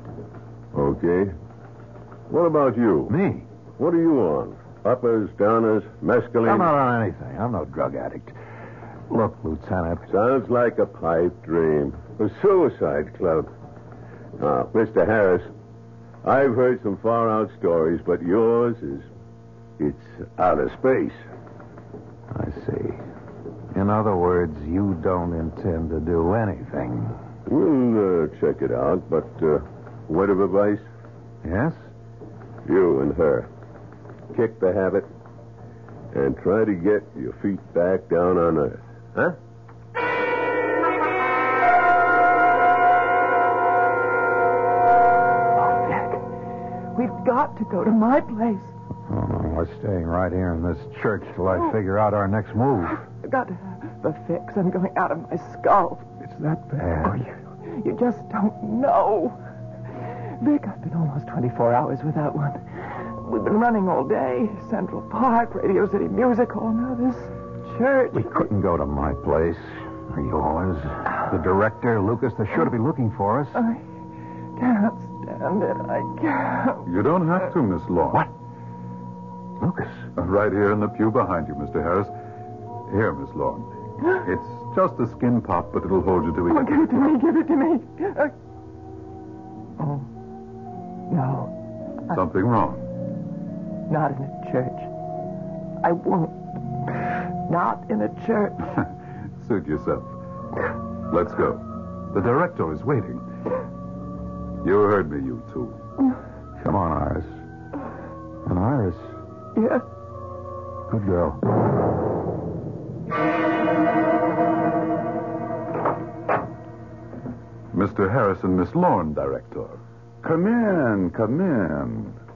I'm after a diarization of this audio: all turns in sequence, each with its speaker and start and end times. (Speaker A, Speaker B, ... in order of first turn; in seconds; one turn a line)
Speaker A: 0.7-1.3
Speaker A: 2.3-3.1
Speaker B: 3.1-3.5
Speaker A: 3.8-6.7
Speaker B: 6.4-8.4
Speaker B: 9.1-10.1
Speaker A: 10.1-13.5
Speaker A: 14.4-15.5
Speaker A: 16.2-19.1
Speaker A: 19.8-21.2
Speaker B: 22.3-23.1
Speaker B: 23.7-27.2
Speaker A: 27.5-30.9
Speaker B: 31.4-31.9
Speaker A: 32.6-33.5
Speaker A: 34.3-35.1
Speaker A: 36.1-39.4
Speaker C: 45.6-46.3
Speaker C: 47.0-48.7
Speaker B: 49.1-53.0
Speaker C: 52.9-56.1
Speaker B: 56.2-57.2
Speaker C: 57.1-59.4
Speaker C: 60.3-68.5
Speaker B: 68.1-73.6
Speaker C: 73.5-73.8
Speaker C: 74.6-76.9
Speaker D: 76.8-78.3
Speaker B: 79.6-80.1
Speaker D: 80.2-82.1
Speaker D: 82.9-87.0
Speaker C: 86.5-88.3
Speaker C: 89.8-90.1
Speaker C: 91.1-91.5
Speaker D: 92.1-92.9
Speaker C: 93.9-94.9
Speaker C: 95.8-96.9
Speaker C: 97.5-98.7
Speaker D: 99.4-100.1
Speaker D: 101.1-103.2
Speaker D: 104.6-105.8
Speaker B: 106.6-107.4
Speaker B: 108.5-109.2
Speaker C: 109.6-109.8
Speaker B: 110.9-111.4
Speaker D: 117.7-119.8
Speaker E: 120.2-122.2